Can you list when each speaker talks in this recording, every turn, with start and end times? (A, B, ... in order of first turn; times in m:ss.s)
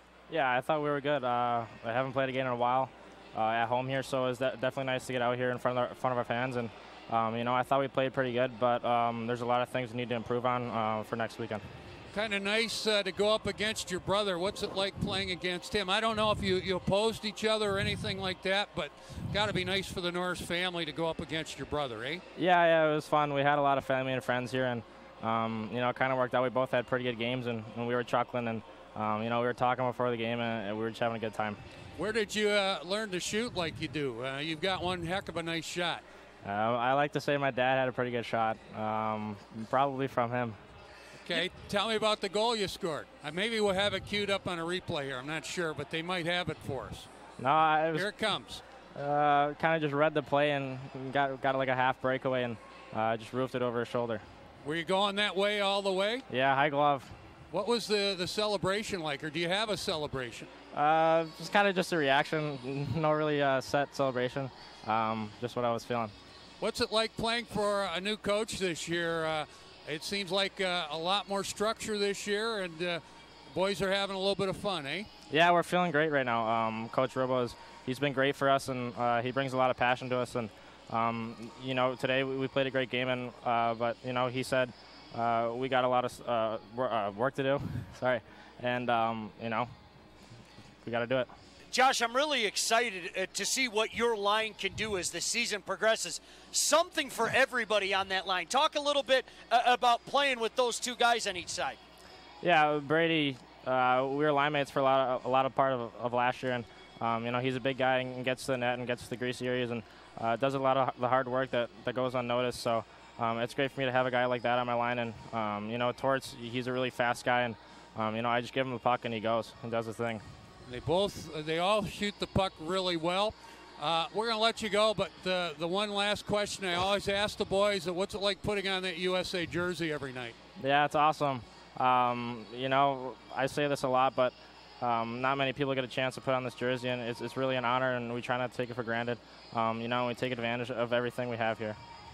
0:00.3-0:11.6 A
0:12.1-0:22.2 B
0:22.4-0:31.6 A
0:32.0-0:36.0 B
0:36.4-0:40.6 A
0:41.2-0:47.1 B
0:47.4-0:48.1 A
0:47.9-0:48.6 B
0:49.0-0:54.2 A
0:54.6-0:56.2 B
0:56.3-0:57.1 A
0:57.5-1:00.5 B
1:00.7-1:06.1 A
1:06.6-1:15.1 B
1:15.3-1:29.7 A
1:30.8-1:31.3 A
1:31.7-1:41.8 C
1:42.4-2:00.2 A
2:00.7-2:10.4 B
2:10.6-2:21.8 A